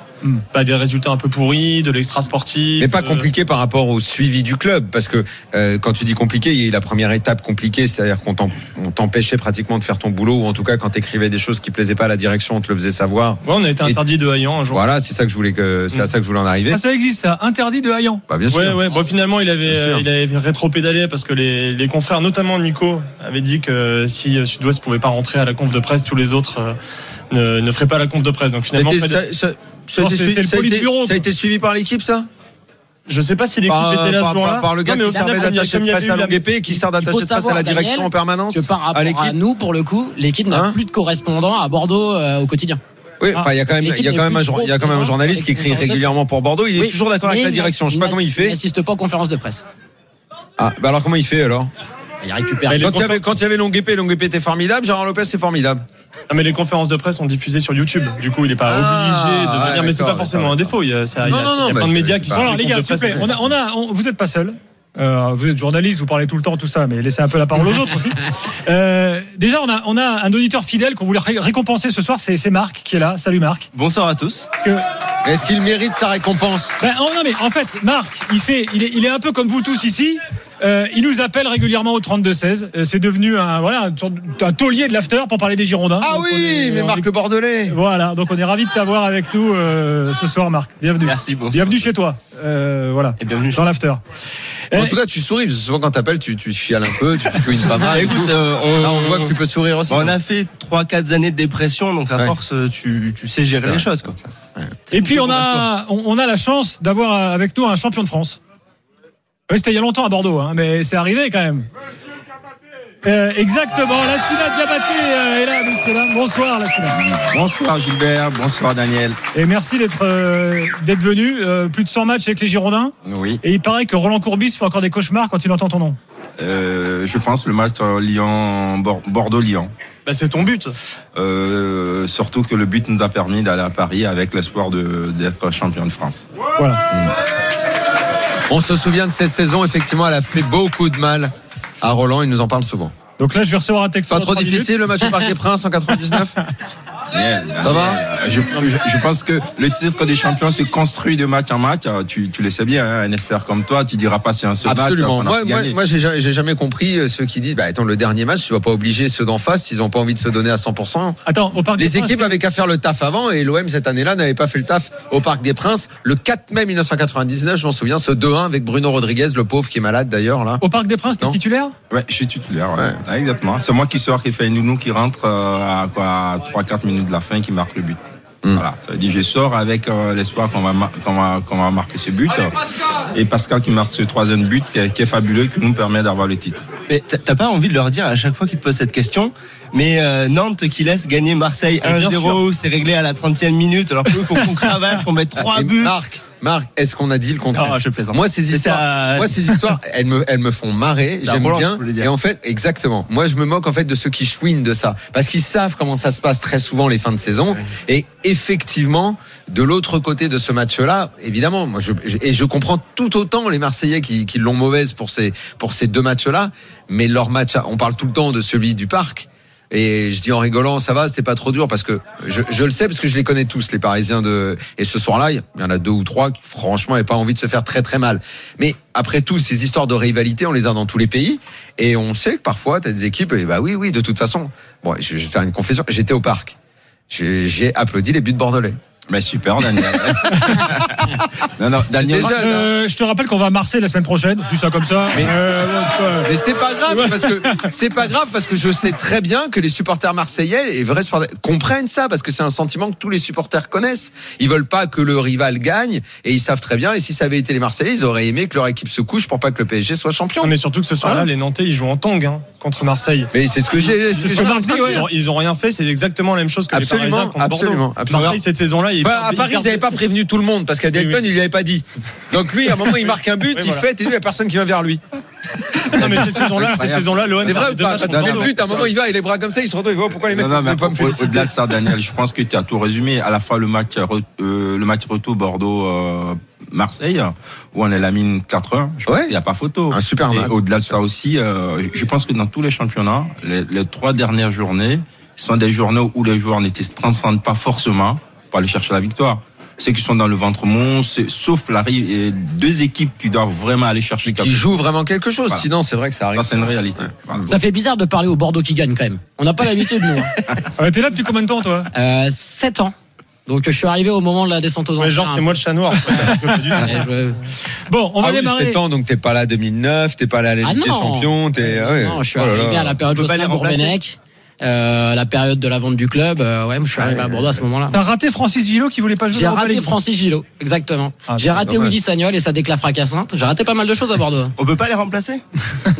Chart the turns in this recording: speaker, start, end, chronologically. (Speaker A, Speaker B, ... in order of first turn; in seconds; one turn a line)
Speaker A: 0.5-3.2
Speaker B: 2.8-14.0
Speaker A: 13.4-14.8
Speaker B: 14.7-16.8
Speaker C: 16.7-18.2
Speaker B: 18.3-18.8
Speaker A: 18.5-26.7
Speaker B: 19.6-20.1
Speaker A: 27.3-29.2
Speaker B: 28.7-32.3
Speaker C: 30.0-31.2
Speaker A: 33.1-36.4
Speaker B: 33.6-39.4
Speaker D: 36.7-42.8
Speaker B: 40.5-40.8
Speaker B: 43.2-48.6
Speaker D: 43.8-46.1
Speaker D: 46.7-49.6
Speaker B: 50.6-51.7
Speaker D: 52.2-53.0
Speaker A: 52.7-53.2
Speaker B: 52.8-55.8
Speaker A: 56.3-63.2
Speaker B: 58.6-63.5
Speaker C: 62.3-73.7
Speaker E: 73.7-74.5
Speaker B: 75.2-76.8
Speaker C: 76.8-87.1
Speaker B: 86.0-87.8
Speaker C: 87.7-94.0
Speaker E: 91.0-91.9
Speaker E: 93.2-93.7
Speaker C: 94.7-95.0
Speaker B: 94.7-100.1
Speaker E: 97.9-99.3
Speaker E: 99.9-104.1
Speaker B: 103.6-104.8
Speaker C: 104.9-108.4
Speaker E: 104.9-105.7
Speaker C: 109.5-111.6
Speaker C: 113.0-117.0
Speaker F: 117.0-119.2
Speaker C: 119.3-126.0
Speaker B: 123.1-123.3
Speaker F: 126.4-129.7
Speaker A: 130.1-130.7
Speaker F: 131.1-136.2
Speaker B: 138.5-142.9
Speaker C: 143.2-144.8
Speaker B: 144.1-146.4
Speaker F: 147.1-155.8
Speaker B: 147.6-148.0
Speaker B: 154.6-170.6
Speaker C: 161.2-162.4
Speaker C: 170.6-171.7
Speaker F: 171.9-178.0
Speaker F: 178.5-182.6
Speaker F: 183.1-186.6
Speaker E: 186.9-196.0
Speaker A: 191.8-192.4
Speaker B: 195.5-236.5
Speaker E: 197.5-199.3
Speaker E: 201.2-202.1
Speaker B: 237.1-238.8
Speaker F: 239.1-242.4
Speaker B: 240.1-241.1
Speaker B: 241.9-242.7
Speaker C: 242.2-246.3
Speaker B: 245.1-245.4
Speaker B: 246.2-261.3
Speaker C: 246.9-247.6
Speaker A: 260.4-263.3
Speaker B: 263.3-265.1
Speaker C: 264.1-265.0
Speaker A: 264.3-269.8
Speaker B: 266.7-268.4
Speaker B: 269.0-275.0
Speaker A: 273.5-273.8
Speaker B: 275.7-276.7
Speaker A: 275.9-278.9
Speaker F: 276.6-277.2
Speaker B: 277.3-281.8
Speaker F: 278.1-278.5
Speaker F: 280.3-304.6
Speaker B: 289.1-289.3
Speaker B: 289.9-290.9
Speaker B: 304.2-307.5
Speaker F: 306.3-307.5
Speaker D: 307.5-310.3
Speaker C: 310.8-311.9
Speaker D: 311.9-312.9
Speaker D: 313.4-315.6
Speaker A: 315.0-316.9
Speaker C: 316.1-316.8
Speaker D: 316.1-317.4
Speaker C: 317.9-318.8
Speaker B: 318.2-323.0
Speaker D: 320.6-327.9
Speaker E: 323.1-324.0
Speaker B: 327.0-327.6
Speaker C: 327.9-329.9
Speaker D: 329.3-334.5
Speaker B: 331.6-331.9
Speaker E: 334.6-335.4